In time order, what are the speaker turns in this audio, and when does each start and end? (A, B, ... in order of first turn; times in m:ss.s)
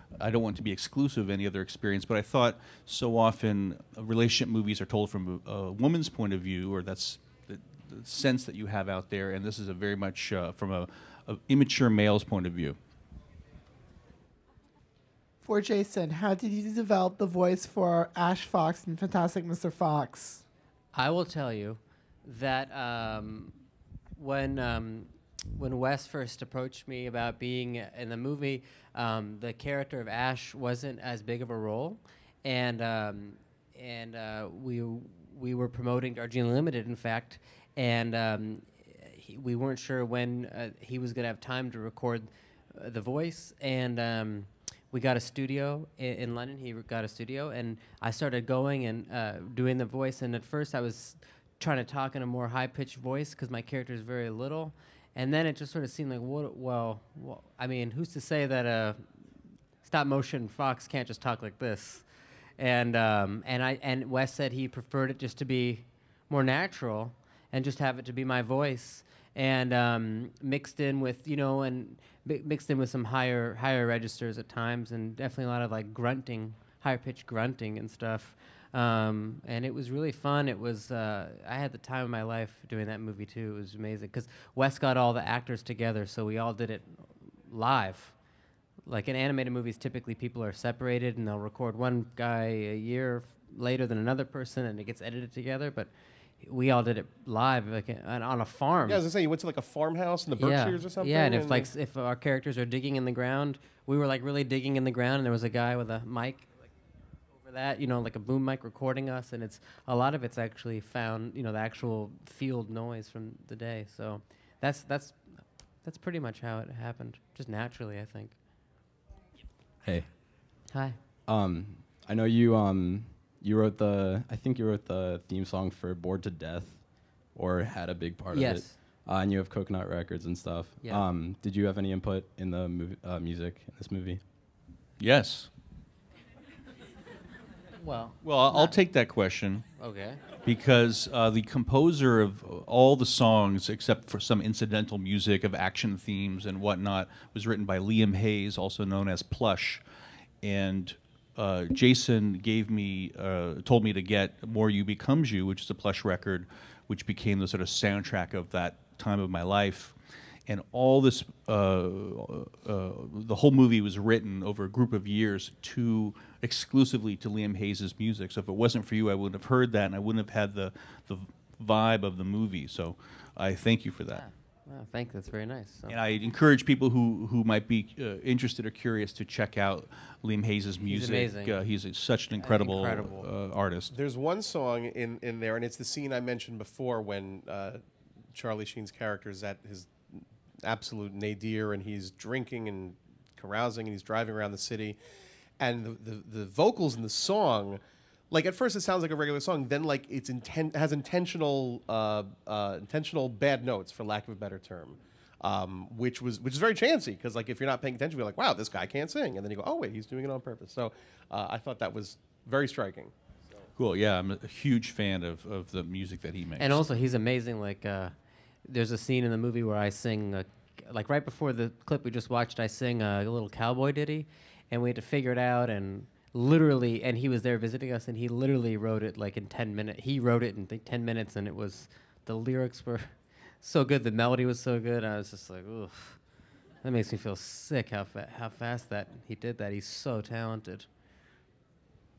0:00.2-0:12.8 A
0:15.4-0:20.4 B
0:20.9-0:23.6 C
0:24.2-0:59.0 C
0:59.8-1:02.0 C
1:02.6-1:28.1 C
1:28.9-1:35.9 C
1:36.4-1:39.0 C
1:38.9-1:41.7 D
1:40.4-1:46.5 C
1:47.4-1:55.2 C
1:55.8-1:58.3 C
1:59.8-2:00.1 E
2:00.7-2:01.0 C
2:01.3-2:14.2 E
2:08.3-2:08.8 C
2:15.0-2:15.5 A
2:17.8-2:18.7 C
2:18.2-2:19.7 A
2:19.8-2:20.2 C
2:20.4-2:29.8 A
2:30.4-2:40.0 A
2:40.5-2:54.2 A
2:54.1-2:56.0 C
2:55.9-3:03.9 A
3:00.8-3:01.5 C
3:02.4-3:03.3 C
3:03.9-3:07.8 D
3:08.3-3:15.0 D
3:15.6-3:33.1 D
3:33.8-3:36.8 A
3:36.6-3:38.1 C
3:38.7-3:56.2 C
3:56.8-4:00.9 C